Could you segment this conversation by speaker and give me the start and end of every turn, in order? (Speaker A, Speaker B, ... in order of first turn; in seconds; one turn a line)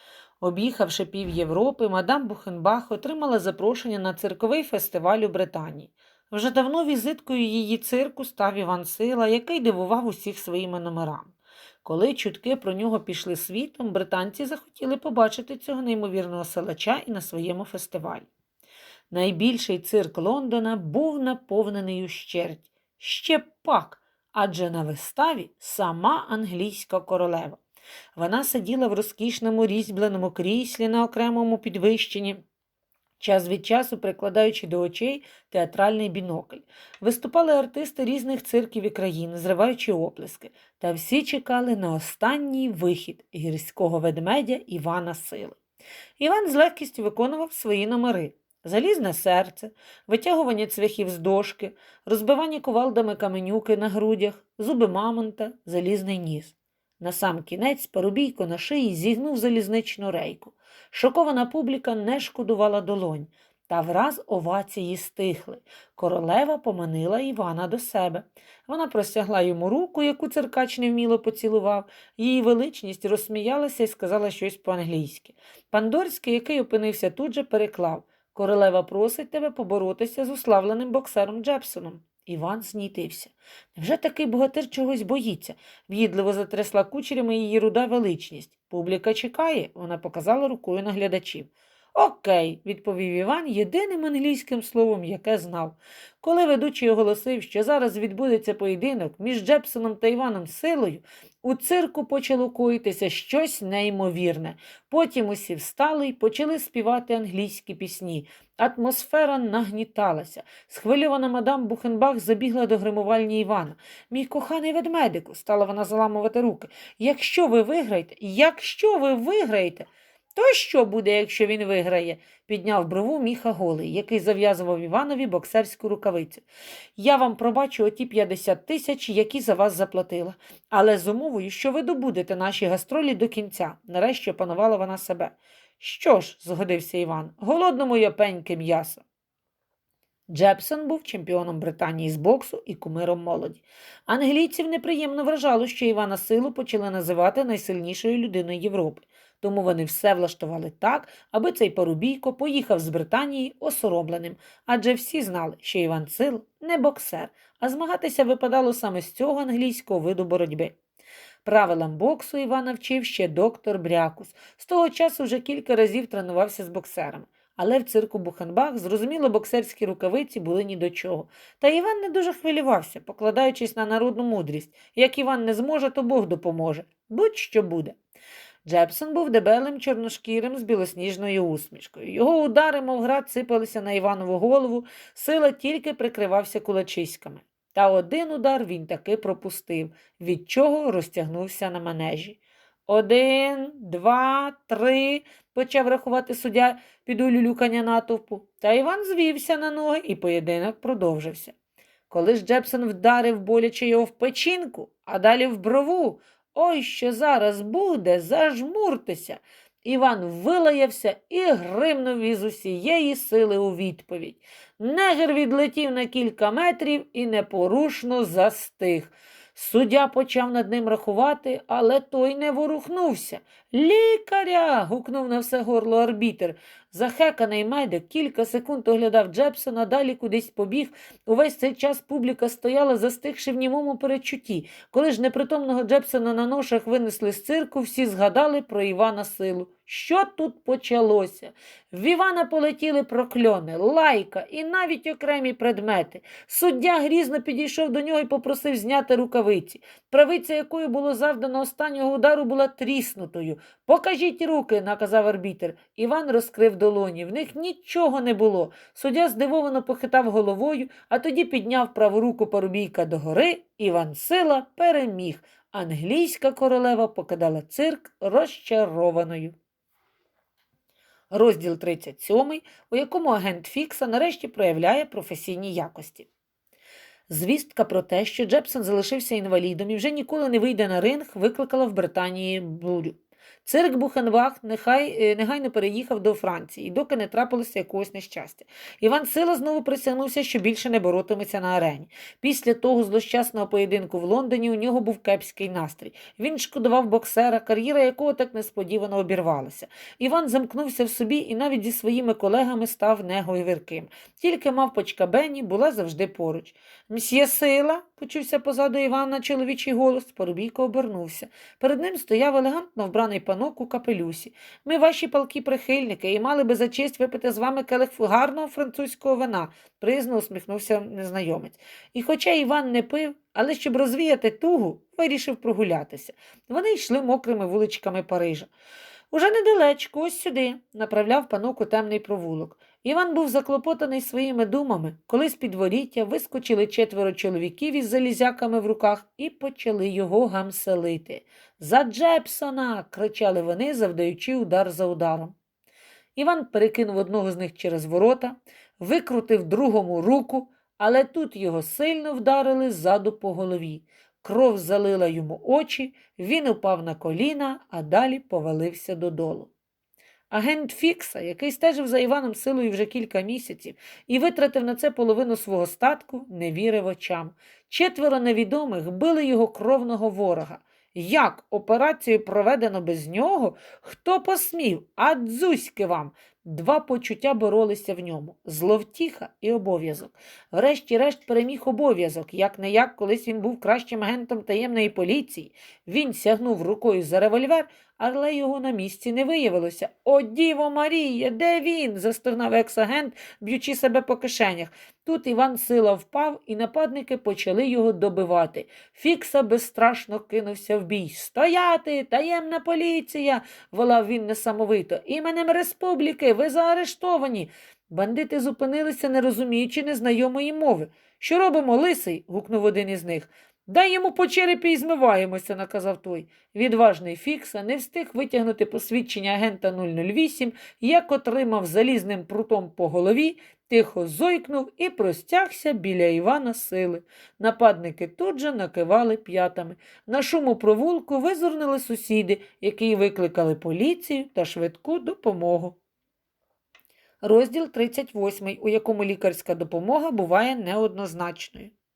Speaker A: 0.4-18.3
Speaker A: 19.1-27.6
Speaker A: 28.2-32.4
Speaker A: 33.2-45.6
Speaker A: 46.2-126.5
Speaker A: 127.0-139.0
Speaker A: 140.3-160.8
Speaker A: 161.4-178.0
Speaker A: 178.7-201.6
Speaker A: 202.1-269.6
Speaker A: 271.3-276.3
Speaker A: 277.3-328.7
Speaker A: 329.3-345.6
Speaker A: 346.4-359.7
Speaker A: 360.5-436.0
Speaker A: 437.4-441.9